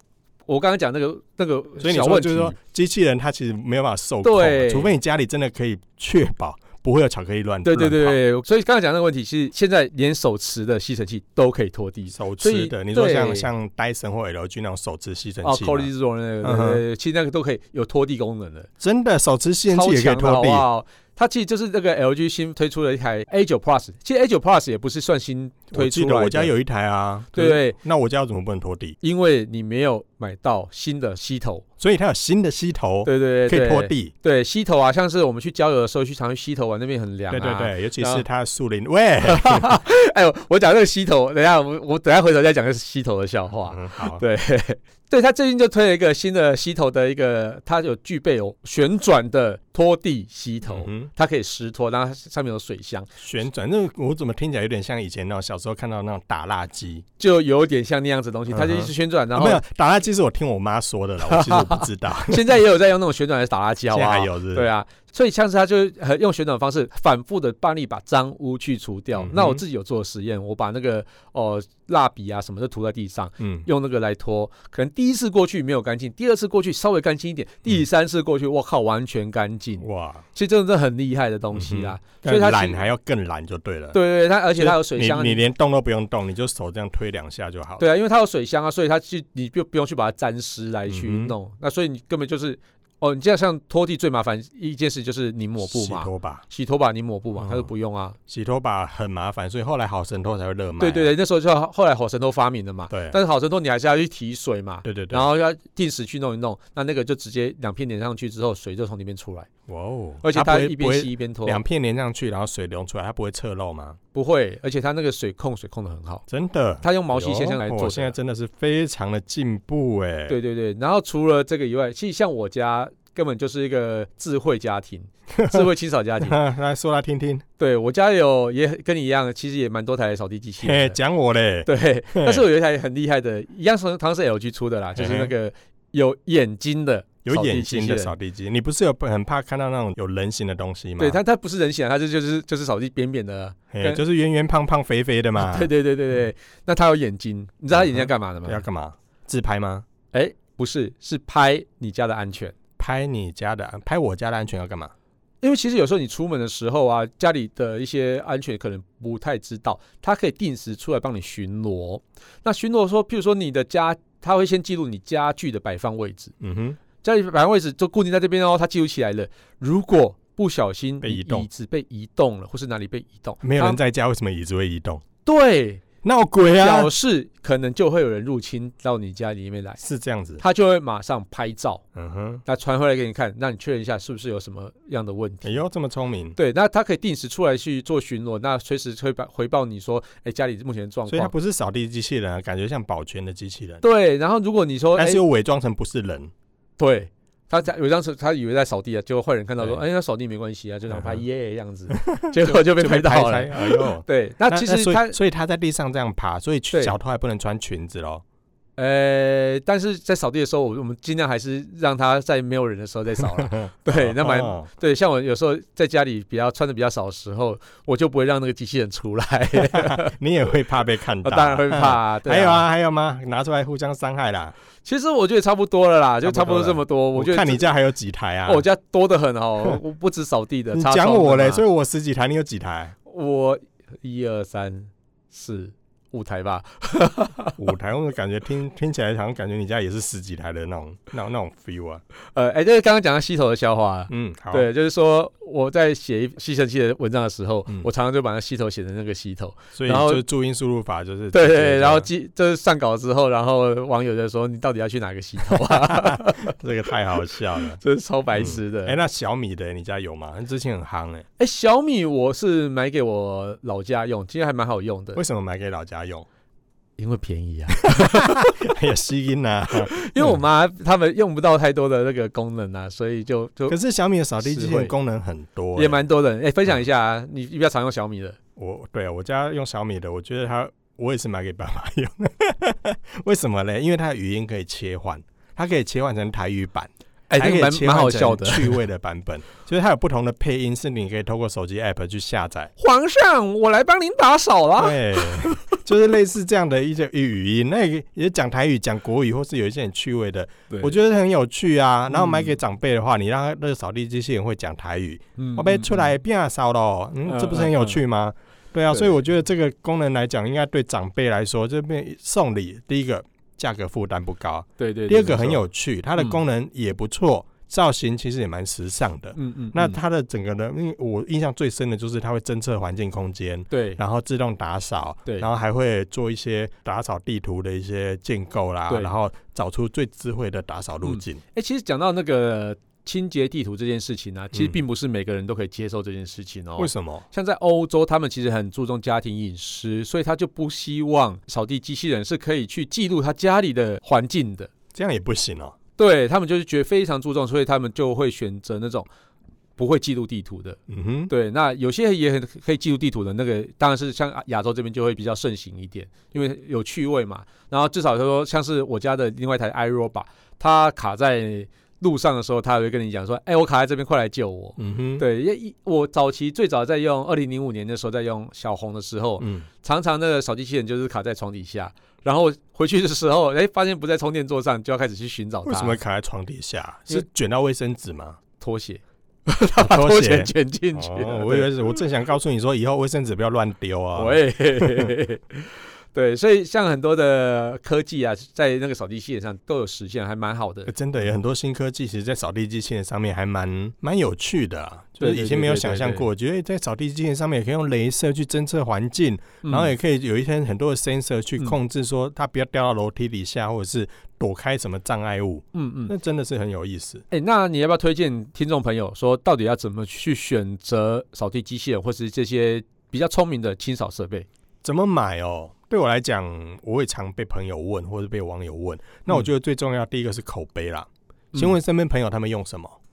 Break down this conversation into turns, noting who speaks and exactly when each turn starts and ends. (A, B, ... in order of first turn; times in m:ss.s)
0:00.5-0:02.6 A
0:01.8-0:08.2 B
0:04.2-0:04.9 A
0:07.6-0:13.5 A
0:12.1-0:15.9 B
0:15.4-0:18.7 A
0:16.4-0:16.8 B
0:18.8-0:20.7 B
0:19.7-0:26.5 A
0:25.7-0:29.0 B
0:27.3-0:27.8 A
0:29.0-0:31.6 A
0:31.8-0:34.1 B
0:33.0-0:38.2 A
0:37.3-0:39.8 B
0:39.2-0:53.1 A
0:43.7-0:44.2 B
0:50.6-0:51.1 B
0:53.2-0:57.0 B
0:57.2-0:59.6 A
0:58.5-1:02.6 B
1:01.2-1:22.8 A
1:03.9-1:04.7 B
1:09.2-1:09.6 B
1:13.4-1:13.7 B
1:19.8-1:20.2 B
1:21.5-1:24.0 B
1:23.9-1:25.4 A
1:24.5-1:27.8 B
1:27.8-1:38.2 A
1:30.9-1:31.3 B
1:35.6-1:36.4 B
1:37.4-1:37.7 B
1:38.3-1:41.1 B
1:40.8-1:49.5 A
1:42.9-1:43.2 B
1:44.8-1:45.3 B
1:49.7-1:54.0 B
1:50.2-1:51.6 A
1:54.1-1:56.2 A
1:56.3-2:00.4 B
1:56.8-1:58.1 A
2:00.3-2:06.4 A
2:05.3-2:05.7 B
2:06.2-2:07.4 B
2:07.6-2:11.0 A
2:10.6-2:12.4 B
2:11.6-2:18.1 A
2:15.0-2:15.3 B
2:17.2-2:21.2 B
2:21.0-2:24.0 A
2:23.7-2:25.7 B
2:25.4-2:28.6 A
2:27.7-2:29.8 B
2:30.1-2:32.6 A
2:32.8-2:34.9 B
2:35.4-2:46.3 A
2:46.4-2:46.8 B
2:47.0-2:53.8 A
2:51.0-2:51.5 B
2:53.4-2:55.0 B
2:55.2-2:55.8 A
2:56.0-2:56.9 B
2:56.4-2:59.8 A
2:59.8-3:00.4 B
3:00.4-3:01.8 A
3:01.9-3:02.4 B
3:02.4-3:05.6 A
3:05.4-3:06.4 B
3:06.3-3:11.3 A
3:11.1-3:13.8 B
3:13.8-3:15.2 A
3:15.0-3:16.3 B
3:16.8-3:25.2 A
3:20.9-3:21.2 B
3:21.9-3:28.2 B
3:28.8-3:40.2 A
3:33.2-3:34.7 B
3:39.6-3:44.5 B
3:41.2-3:42.6 A
3:44.8-3:47.7 A
3:46.2-3:48.6 B
3:48.4-3:51.6 A
3:50.7-3:52.9 B
3:53.0-3:57.6 A
3:57.6-4:02.0 B
4:02.3-4:10.2 A
4:04.1-4:04.7 B
4:09.7-4:12.1 B
4:11.3-4:16.6 A
4:15.6-4:17.8 B
4:17.8-4:19.0 A
4:18.3-4:21.2 B
4:21.4-4:25.2 A
4:25.1-4:26.3 B
4:27.0-4:28.7 A
4:27.8-4:30.4 B
4:29.7-4:33.8 A
4:33.7-4:36.0 B
4:34.4-4:34.9 A
4:35.7-4:38.4 A
4:38.6-4:52.7 B
4:47.3-4:48.8 A
4:52.8-4:55.8 A
4:54.8-5:31.4 B
5:02.1-5:02.5 A
5:05.4-5:06.1 A
5:07.2-5:08.0 A
5:14.8-5:15.6 A
5:19.3-5:20.0 A
5:23.7-5:24.0 A
5:31.0-5:44.7 A
5:34.5-5:34.8 B
5:36.8-5:37.2 B
5:44.9-5:45.7 B
5:46.0-5:49.1 A
5:49.8-6:16.0 A
5:50.9-5:51.3 B
6:04.8-6:05.2 B
6:09.4-6:09.7 B
6:15.6-6:18.4 B
6:18.6-6:21.7 A
6:19.8-6:25.1 B
6:24.2-6:30.9 A
6:30.9-6:47.2 B
6:35.2-6:36.3 A
6:39.6-6:39.9 A
6:45.7-6:46.1 A
6:47.3-6:54.5 A
6:54.8-7:03.0 B